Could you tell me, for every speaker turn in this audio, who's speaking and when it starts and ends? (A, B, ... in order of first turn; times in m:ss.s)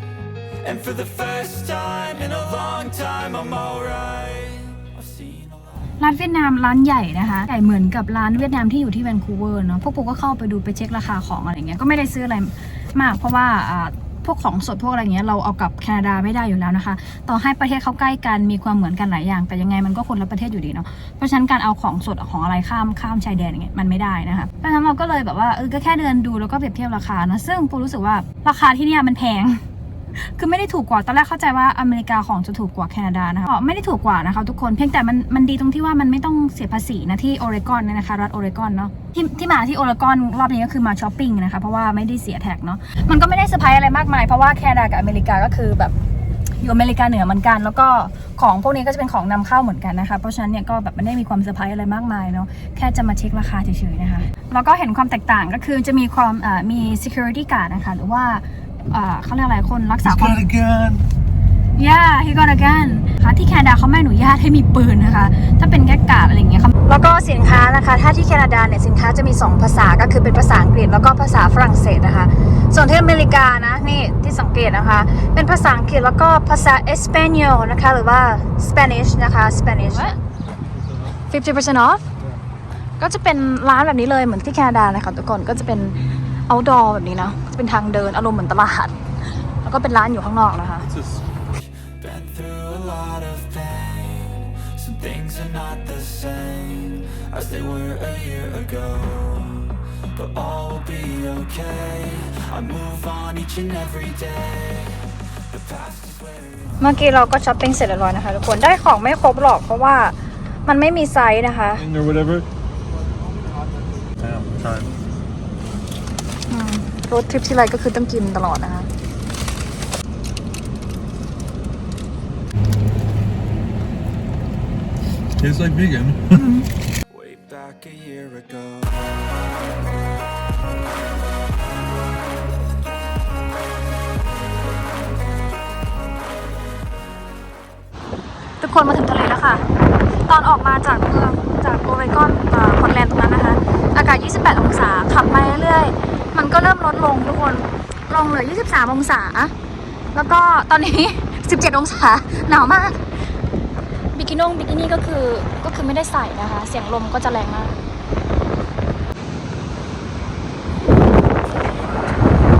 0:00.6-0:05.9 A
0:06.0-0:29.6 B
0:30.2-0:45.9 B
0:46.6-1:00.5 B
1:00.0-1:01.0 C
1:01.8-1:20.2 B
1:20.8-1:21.1 C
1:21.3-1:22.0 B
1:23.0-1:29.0 B
1:29.6-1:30.9 B
1:30.8-1:31.2 C
1:31.5-1:46.8 A
1:46.8-1:51.8 B
1:51.7-1:52.5 C
1:54.2-1:54.9 C
1:56.5-1:58.9 B
2:05.4-2:06.4 C
2:06.4-2:06.6 B
2:07.1-2:09.7 A
2:18.6-2:19.6 B
2:20.2-2:29.5 B
2:30.1-2:33.0 B
2:34.1-2:37.8 B